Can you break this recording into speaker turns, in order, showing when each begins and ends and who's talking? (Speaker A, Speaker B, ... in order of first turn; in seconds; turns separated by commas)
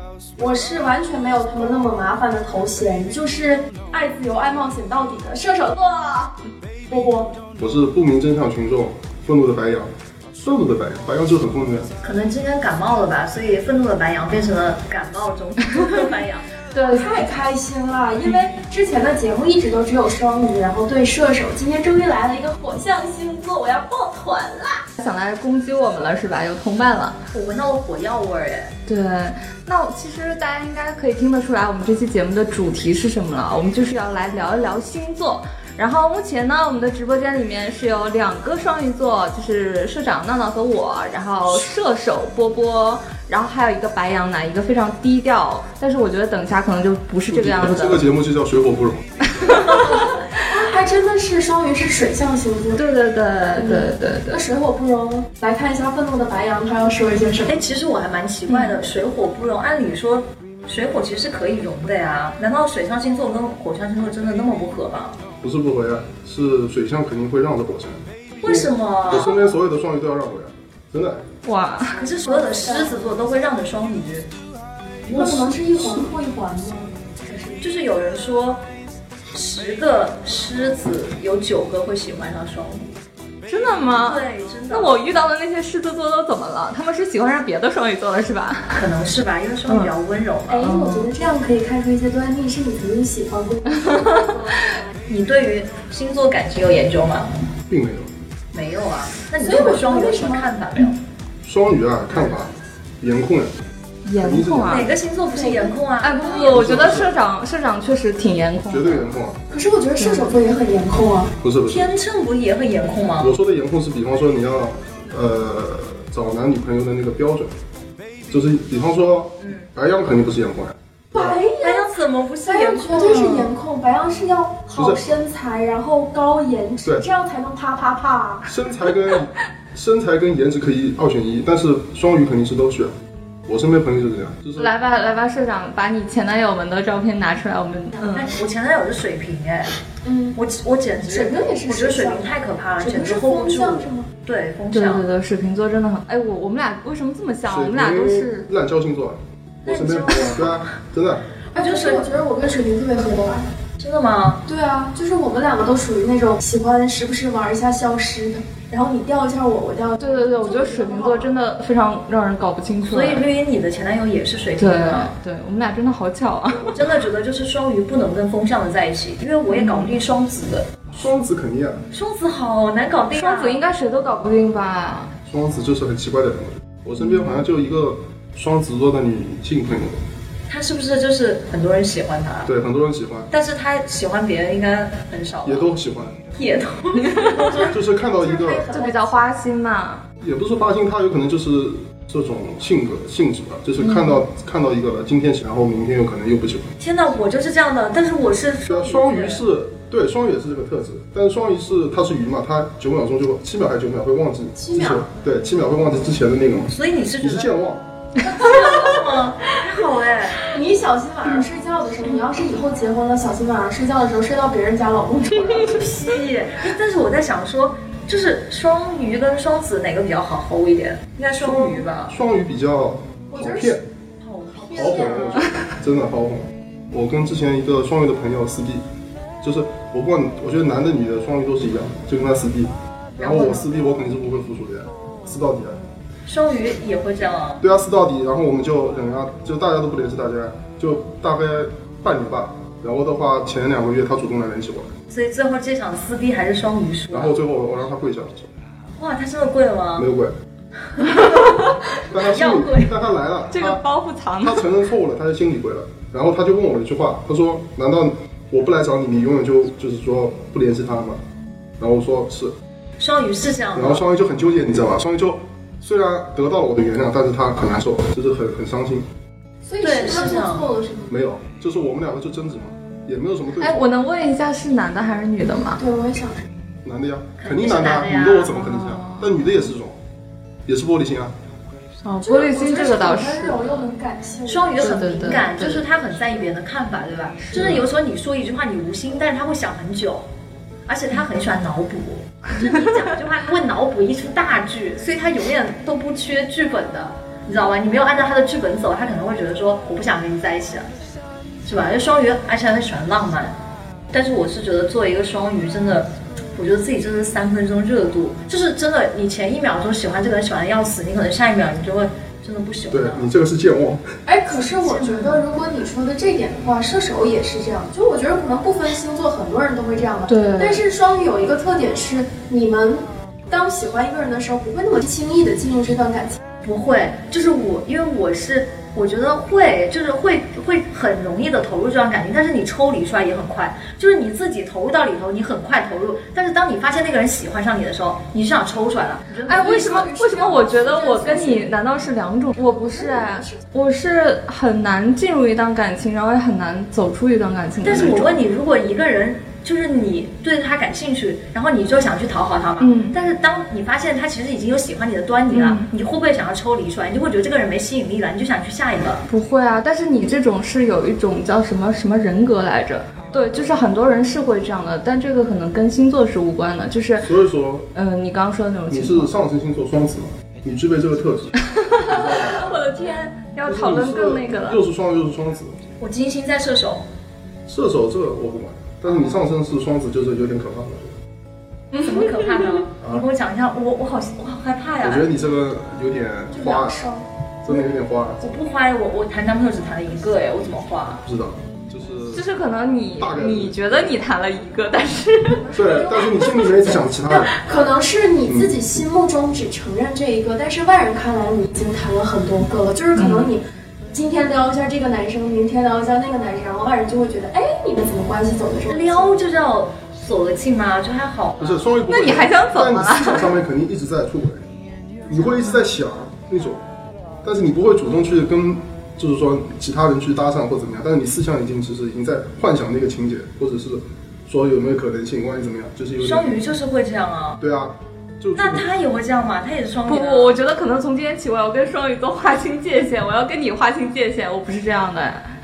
Speaker A: 0.4-6.3, Speaker A: 6.9-7.3, Speaker B: 7.6-11.9, Speaker C: 12.0-16.5, Speaker D: 16.7-17.2, Speaker A: 16.8-24.9, Speaker D: 25.0-27.2, Speaker C: 27.3-28.7, Speaker D: 28.9-48.0, Speaker B: 47.3-49.5, Speaker D: 49.3-50.2, Speaker A: 49.5-52.9, Speaker D: 52.8-54.4, Speaker A: 53.5-57.6, Speaker C: 57.5-65.2, Speaker D: 58.5-58.8, Speaker B: 65.4-71.2, Speaker C: 68.4-69.3, Speaker D: 71.4-72.0, Speaker C: 71.9-74.3, Speaker A: 72.2-73.2, Speaker A: 75.1-77.7, Speaker B: 75.1-76.0, Speaker C: 77.6-78.6, Speaker C: 79.3-82.9, Speaker D: 83.5-88.8, Speaker C: 83.9-85.2, Speaker C: 88.7-90.7, Speaker D: 89.7-89.9, Speaker A: 90.5-94.9, Speaker D: 90.6-91.1, Speaker D: 93.7-94.2, Speaker C: 95.1-97.4, Speaker B: 97.7-98.1, Speaker C: 98.5-101.0, Speaker A: 99.4-100.5, Speaker B: 101.4-103.5, Speaker D: 104.0-104.9, Speaker B: 104.2-105.0, Speaker C: 104.6-107.0, Speaker A: 105.3-105.8, Speaker D: 106.0-109.1, Speaker B: 106.4-107.1, Speaker B: 108.7-109.4, Speaker A: 109.5-111.3, Speaker D: 110.0-110.3, Speaker B: 111.4-111.9, Speaker C: 111.7-113.3, Speaker B: 113.2-117.5, Speaker B: 118.3-120.7, Speaker C: 119.4-119.7, Speaker A: 121.1-121.9, Speaker C: 121.6-123.4, Speaker A: 122.4-128.5, Speaker D: 123.1-123.4, Speaker B: 124.7-125.0, Speaker B: 128.4-132.9, Speaker B: 133.5-134.7, Speaker D: 134.6-138.3, Speaker C: 138.1-139.8, Speaker A: 140.0-140.4, Speaker C: 140.3-145.1, Speaker A: 141.0-144.1, Speaker D: 144.7-148.5, Speaker B: 147.5-151.3, Speaker A: 149.7-150.4, Speaker C: 149.7-150.6, Speaker A: 151.5-153.5, Speaker C: 151.5-152.1, Speaker C: 153.8-154.4, Speaker A: 154.4-161.3, Speaker D: 160.0-163.2, Speaker C: 162.8-165.1, Speaker D: 164.6-166.8, Speaker C: 166.5-170.7, Speaker D: 169.5-169.9, Speaker B: 170.9-171.8, Speaker C: 171.9-173.6, Speaker D: 173.1-175.1, Speaker B: 175.2-180.0, Speaker D: 177.0-177.4, Speaker C: 180.5-182.5, Speaker B: 182.4-183.3, Speaker C: 183.3-185.7, Speaker B: 185.4-186.2, Speaker C: 186.3-187.7, Speaker A: 187.3-189.2, Speaker B: 187.7-188.6, Speaker D: 188.7-190.0, Speaker B: 190.2-196.7, Speaker D: 193.8-194.2, Speaker C: 196.8-199.4, Speaker B: 198.7-207.8, Speaker A: 204.6-205.1, Speaker C: 206.7-207.5, Speaker C: 208.2-210.6, Speaker A: 208.4-208.9, Speaker A: 210.4-215.8, Speaker C: 215.5-222.2, Speaker B: 221.4-223.8, Speaker A: 223.3-223.8, Speaker C: 224.2-225.3, Speaker A: 224.5-225.5, Speaker B: 224.7-228.8, Speaker D: 225.4-225.7, Speaker B: 229.4-235.8, Speaker C: 233.2-233.7, Speaker C: 236.2-237.6, Speaker B: 237.6-244.9, Speaker C: 245.1-247.3, Speaker B: 247.1-248.5, Speaker C: 249.0-250.1, Speaker B: 250.0-250.3, Speaker C: 250.9-252.9, Speaker D: 251.0-251.8, Speaker B: 252.1-253.8, Speaker D: 253.5-254.7, Speaker B: 254.4-261.2, Speaker B: 261.8-262.5, Speaker C: 263.0-264.0, Speaker B: 263.7-269.1, Speaker A: 269.6-271.1, Speaker C: 269.8-270.7, Speaker B: 271.1-273.8, Speaker D: 273.6-275.8, Speaker A: 275.8-276.5, Speaker B: 276.8-280.0, Speaker C: 277.4-278.5, Speaker D: 278.5-279.6, Speaker B: 280.6-281.3, Speaker D: 282.0-283.9, Speaker A: 282.2-284.9, Speaker C: 284.4-290.2, Speaker D: 284.8-285.8, Speaker D: 287.4-287.9, Speaker C: 290.9-300.9, Speaker C: 301.6-303.5, Speaker C: 304.1-313.3, Speaker B: 312.9-314.1, Speaker A: 314.2-326.4, Speaker D: 320.3-320.8, Speaker C: 326.6-340.0, Speaker A: 339.4-341.7, Speaker D: 339.5-348.4, Speaker A: 342.9-343.6, Speaker C: 347.8-359.2, Speaker D: 352.8-353.1, Speaker D: 355.5-355.9, Speaker D: 359.3-367.3, Speaker B: 367.2-367.9, Speaker D: 367.9-369.3, Speaker B: 368.9-372.8, Speaker D: 371.8-374.8, Speaker B: 373.6-375.8, Speaker C: 376.0-377.0, Speaker B: 377.7-381.1, Speaker D: 381.9-382.4, Speaker C: 382.0-385.3, Speaker B: 383.0-383.2, Speaker B: 385.0-387.1, Speaker A: 386.5-387.2, Speaker B: 387.6-388.4, Speaker C: 388.4-391.2, Speaker B: 391.2-392.4, Speaker D: 392.3-395.6, Speaker B: 393.2-394.1, Speaker A: 395.5-409.3, Speaker B: 395.7-397.9, Speaker B: 398.4-398.8, Speaker D: 403.1-403.5, Speaker C: 408.9-411.9, Speaker B: 411.6-414.6, Speaker D: 412.1-413.5, Speaker B: 415.2-416.8, Speaker B: 417.4-426.6, Speaker C: 426.2-427.6, Speaker B: 427.6-428.9, Speaker C: 428.6-430.6, Speaker D: 430.1-435.5